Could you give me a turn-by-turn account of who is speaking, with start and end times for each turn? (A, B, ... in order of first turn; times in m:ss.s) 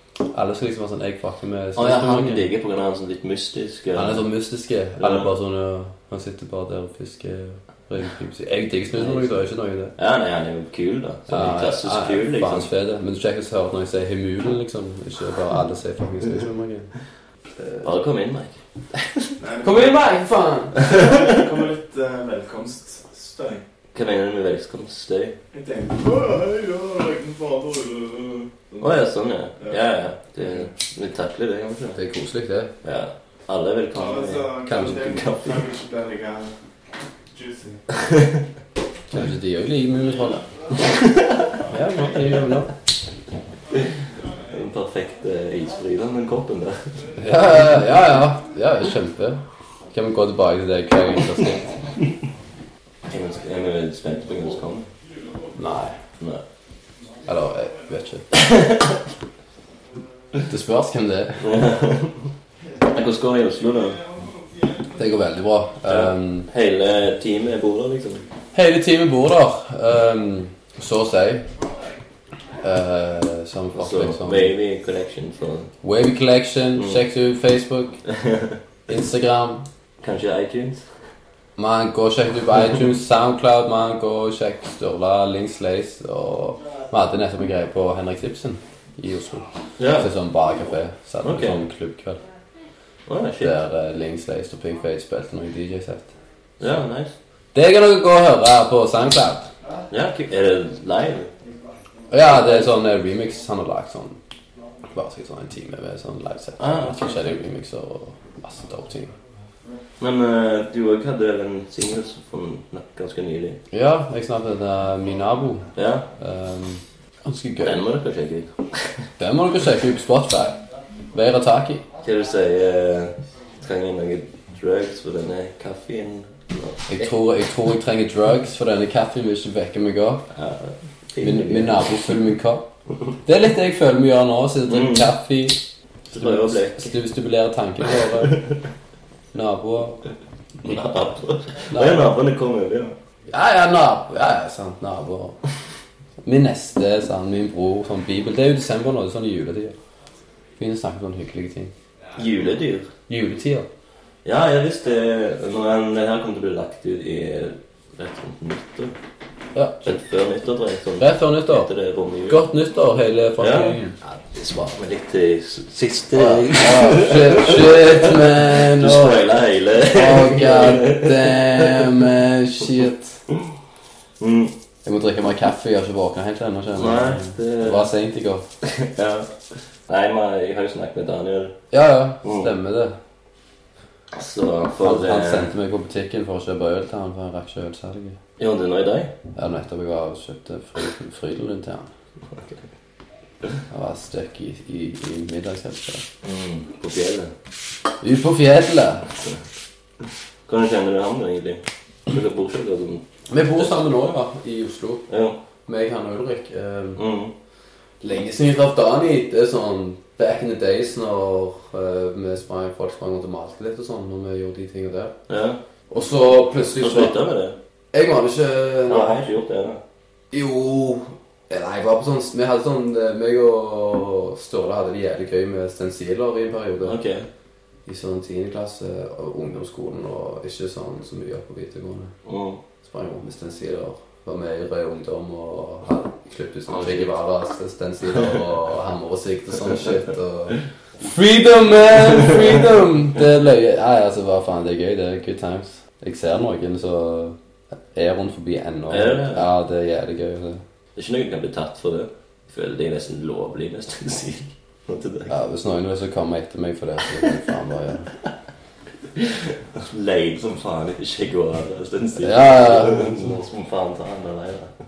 0:00.3-0:02.5 A
0:01.8-0:04.2 B
0:03.9-0:09.9 A
0:05.0-0:05.3 B
0:09.0-0:09.3 B
0:10.0-0:12.7 B
0:11.3-0:16.9 A
0:17.8-0:19.3 B
0:19.4-0:20.0 C
0:19.6-0:20.8 A
0:20.8-0:23.6 C
0:23.9-0:25.4 B
0:25.5-0:29.0 C
0:28.8-0:32.0 B
0:32.0-0:32.7 A
0:32.8-0:35.6 B
0:33.9-0:36.5 C
0:34.7-0:35.0 A
0:37.3-0:37.8 C
0:37.9-0:38.4 B
0:39.1-0:40.4 A
0:40.8-0:41.4 B
0:41.7-0:42.7 A
0:44.5-0:46.9 B
0:47.2-0:51.7 A
0:53.1-0:54.9 B
0:55.5-0:56.0 A
0:57.2-0:58.3 A
0:58.3-0:59.0 B
1:00.4-1:01.5 A
1:01.4-1:02.3 B
1:02.8-1:04.0 B
1:04.9-1:06.5 A
1:05.9-1:08.2 B
1:08.5-1:11.5 A
1:12.6-1:14.5 A
1:13.7-1:15.7 B
1:15.8-1:18.0 A
1:18.1-1:18.6 B
1:18.9-1:19.6 A
1:20.0-1:20.8 B
1:21.6-1:32.2 A
1:29.8-1:30.1 B
1:31.2-1:31.6 B
1:33.0-1:33.6 B
1:33.4-1:36.1 A
1:36.6-1:37.1 B
1:37.5-1:39.5 A
1:39.9-1:41.3 B
1:42.1-1:44.2 A
1:42.2-1:42.7 B
1:44.9-1:49.1 A
1:46.6-1:47.4 B
1:50.0-1:53.6 B
1:53.7-1:57.8 A
1:55.7-1:56.1 B
1:57.6-1:59.1 B
1:59.2-2:00.6 A
2:01.1-2:01.8 A
2:02.0-2:07.1 B
2:06.9-2:10.2 A
2:10.3-2:12.1 B
2:11.2-2:12.7 A
2:13.2-2:18.4 A
2:14.7-2:15.1 B
2:16.1-2:17.0 B
2:18.2-2:18.5 B
2:19.3-2:20.0 A
2:20.6-2:22.9 B
2:21.7-2:22.1 A
2:23.3-2:25.4 A
2:26.2-2:29.7 A
2:30.6-2:31.7 A
2:32.1-2:32.9 B
2:33.1-2:33.7 A
2:34.2-2:38.9 B
2:39.5-2:40.0 A
2:39.8-2:42.4 B
2:41.0-2:41.7 A
2:42.3-2:44.0 A
2:43.4-2:51.9 B
2:46.1-2:49.2 A
2:49.8-2:53.2 A
2:54.2-2:54.5 B
2:54.8-2:58.4 A
2:56.7-2:57.9 B
2:58.6-2:59.3 B
2:59.9-3:01.6 B
3:01.7-3:02.9 A
3:02.2-3:02.5 B
3:04.1-3:05.5 B
3:04.8-3:08.2 A
3:08.4-3:09.1 B
3:09.3-3:11.9 A
3:12.3-3:12.6 B
3:13.7-3:16.0 A
3:16.2-3:17.3 B
3:18.0-3:19.1 A
3:20.5-3:23.0 B
3:23.3-3:25.1 A
3:25.1-3:25.4 B
3:25.7-3:27.0 A
3:27.0-3:27.3 B
3:28.0-3:35.1 A
3:35.3-3:35.6 B
3:35.9-3:37.2 A
3:36.8-3:37.6 B
3:37.9-3:39.3 A
3:38.9-3:39.8 B
3:40.3-3:47.0 A
3:46.8-3:47.3 B
3:47.8-3:52.1 A
3:52.2-3:52.6 B
3:52.8-4:07.4 A
3:56.7-3:57.1 B
4:07.9-4:10.6 A
4:08.9-4:09.5 B
4:11.0-4:15.4 B
4:15.3-4:18.1 A
4:19.1-4:24.7 B
4:22.2-4:23.3 A